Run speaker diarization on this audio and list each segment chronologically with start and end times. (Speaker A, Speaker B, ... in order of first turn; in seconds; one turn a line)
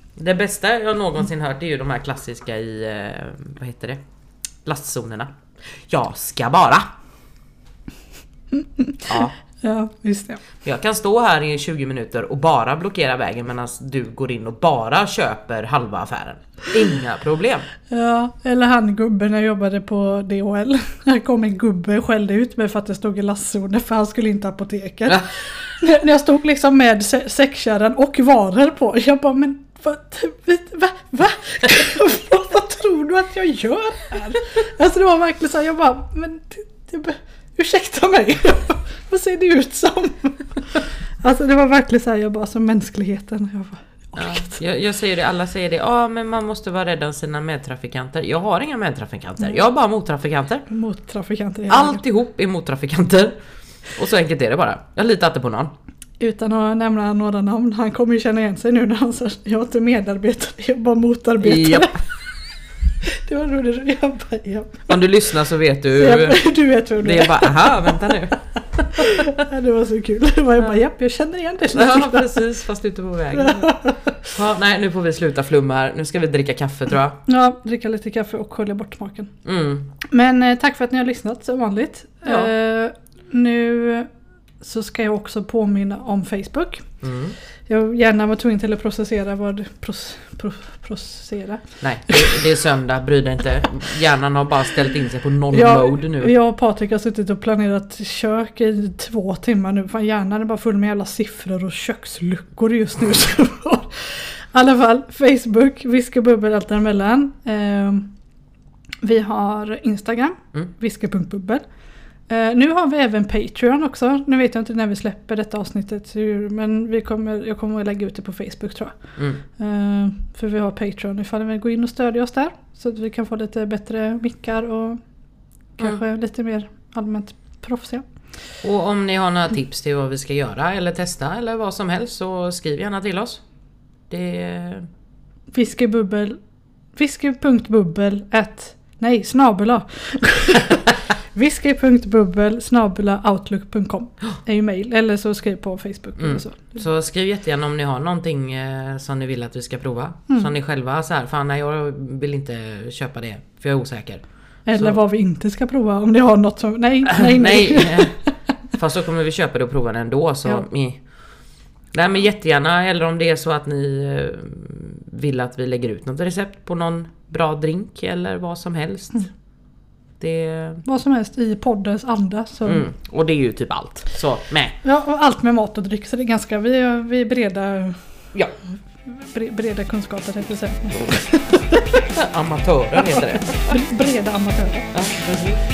Speaker A: 0.2-4.0
Speaker A: 4.7-5.3
Speaker A: 5.9-6.9
Speaker B: 8.5-10.4
Speaker A: 9.1-9.3
Speaker A: 10.6-17.6
Speaker B: 17.9-44.6
Speaker A: 44.2-50.7
Speaker B: 50.7-52.0
Speaker A: 51.7-53.4
Speaker A: 54.0-55.7
Speaker B: 56.2-62.0
Speaker A: 61.4-62.0
Speaker B: 63.1-64.9
Speaker A: 64.9-69.1
Speaker B: 66.0-68.1
Speaker B: 69.0-72.4
Speaker A: 71.7-77.2
Speaker B: 73.4-73.8
Speaker B: 77.3-79.3
Speaker A: 79.5-79.9
Speaker B: 80.0-84.1
Speaker A: 82.2-82.5
Speaker B: 84.6-86.9
Speaker A: 87.0-87.4
Speaker B: 87.7-91.6
Speaker A: 91.8-96.3
Speaker B: 95.5-108.1
Speaker B: 109.0-111.6
Speaker B: 112.3-118.9
Speaker B: 119.6-125.0
Speaker B: 125.8-128.1
Speaker A: 128.6-133.4
Speaker A: 134.1-134.9
Speaker B: 135.5-136.4
Speaker B: 137.0-146.8
Speaker A: 146.2-154.2
Speaker B: 154.7-158.2
Speaker A: 154.7-155.0
Speaker A: 157.1-158.2
Speaker A: 158.7-161.0
Speaker A: 161.9-169.3
Speaker A: 170.2-170.8
Speaker B: 170.8-172.9
Speaker A: 172.7-174.8
Speaker B: 174.8-178.0
Speaker B: 179.1-181.9
Speaker A: 182.0-183.8
Speaker B: 183.2-184.9
Speaker A: 184.9-185.6